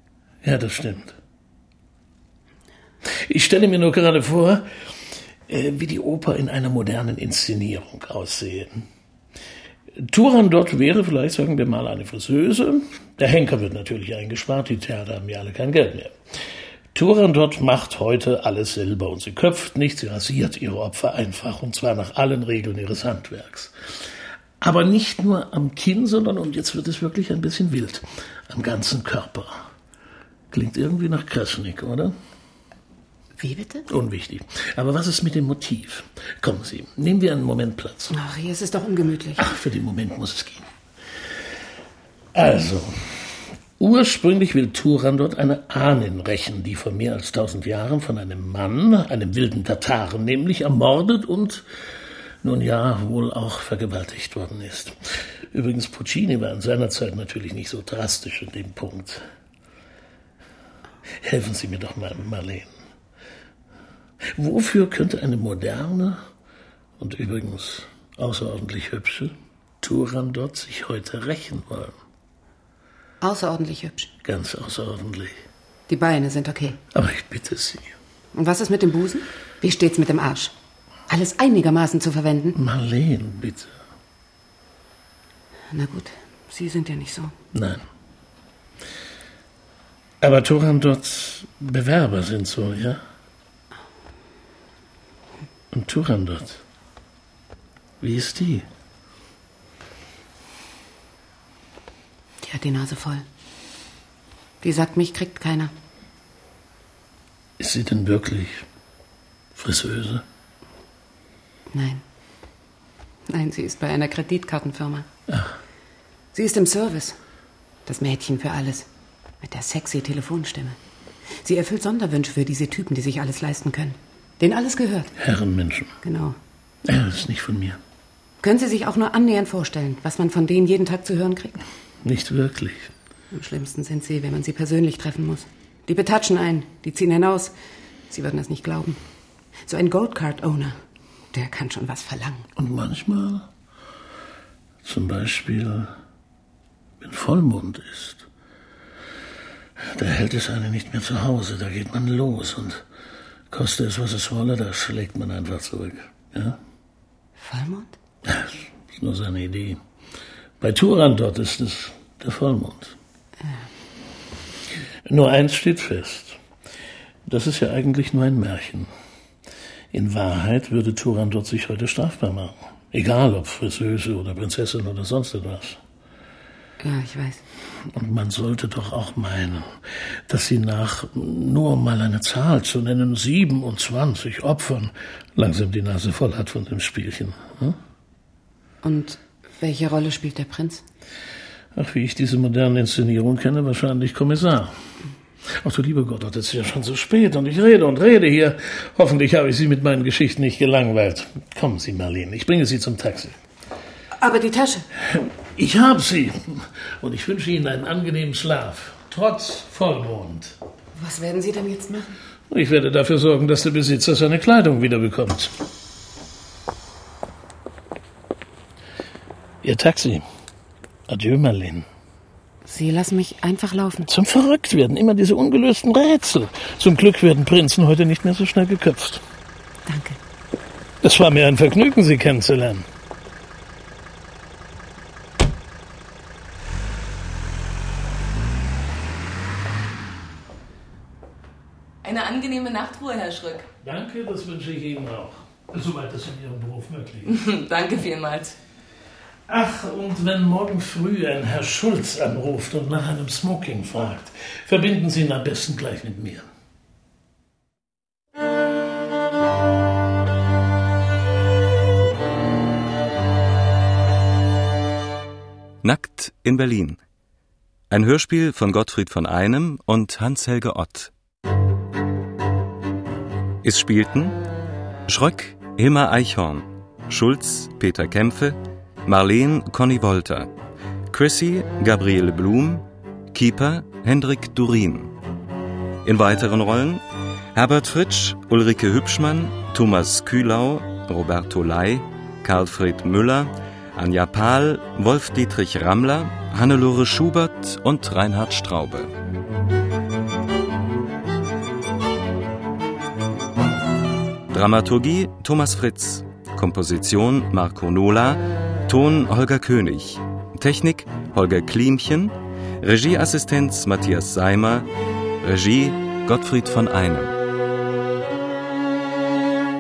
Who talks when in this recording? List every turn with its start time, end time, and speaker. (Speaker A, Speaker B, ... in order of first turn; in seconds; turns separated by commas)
Speaker A: 0.4-1.2, Speaker A: 3.2-4.7, Speaker A: 5.5-8.8, Speaker A: 10.0-16.1, Speaker A: 16.9-23.7, Speaker A: 24.6-29.6, Speaker A: 30.5-32.1, Speaker B: 33.4-33.9, Speaker A: 33.9-38.1, Speaker B: 38.1-39.4, Speaker A: 39.4-40.7, Speaker A: 42.3-43.2, Speaker A: 43.8-51.6, Speaker A: 52.4-55.0, Speaker A: 55.5-59.2, Speaker A: 61.2-62.7, Speaker A: 64.4-66.2, Speaker A: 67.0-72.0, Speaker B: 73.2-74.1, Speaker A: 74.2-75.4, Speaker B: 75.9-76.8, Speaker A: 76.9-78.0, Speaker B: 78.3-80.5, Speaker B: 81.1-82.6, Speaker A: 82.6-83.7, Speaker B: 85.7-87.3, Speaker A: 87.5-87.8, Speaker A: 90.2-93.0, Speaker A: 95.7-96.6, Speaker A: 98.0-98.7, Speaker B: 102.4-103.2, Speaker B: 104.6-105.7, Speaker A: 107.6-108.7, Speaker A: 109.6-110.2, Speaker B: 111.7-112.0, Speaker B: 113.3-115.1, Speaker B: 116.3-117.2, Speaker B: 117.9-118.9, Speaker B: 119.4-120.8, Speaker B: 121.4-125.1, Speaker A: 125.2-125.9, Speaker B: 126.0-126.4, Speaker A: 126.9-127.8, Speaker B: 128.4-131.6, Speaker A: 132.0-132.9, Speaker B: 133.3-137.5, Speaker B: 138.1-139.0, Speaker B: 139.7-140.8, Speaker B: 141.3-142.5, Speaker A: 142.6-143.5, Speaker A: 144.8-145.9, Speaker A: 147.0-148.3, Speaker A: 149.9-152.8, Speaker A: 153.5-156.6, Speaker B: 157.4-157.9, Speaker A: 158.3-159.8, Speaker A: 160.6-162.9, Speaker A: 165.1-166.4, Speaker A: 167.3-168.9, Speaker A: 169.9-175.8, Speaker B: 176.8-177.4, Speaker A: 177.9-179.7, Speaker A: 180.3-187.8, Speaker B: 188.8-190.8, Speaker A: 191.8-194.8, Speaker A: 195.6-203.4, Speaker B: 204.2-204.8, Speaker A: 205.0-210.6, Speaker B: 210.9-212.1, Speaker A: 212.5-215.5, Speaker A: 219.6-220.2, Speaker A: 221.1-221.9, Speaker B: 222.7-224.1, Speaker A: 224.1-229.2, Speaker B: 229.9-230.2, Speaker A: 231.0-232.9, Speaker C: 242.0-243.7, Speaker A: 243.8-247.4, Speaker C: 247.3-248.6, Speaker A: 249.5-256.5, Speaker D: 265.8-267.0, Speaker D: 267.9-271.1, Speaker D: 273.6-274.4, Speaker D: 275.1-280.5, Speaker D: 281.1-285.1, Speaker D: 286.0-287.0, Speaker D: 287.5-299.1, Speaker D: 304.5-314.9, Speaker D: 315.4-317.4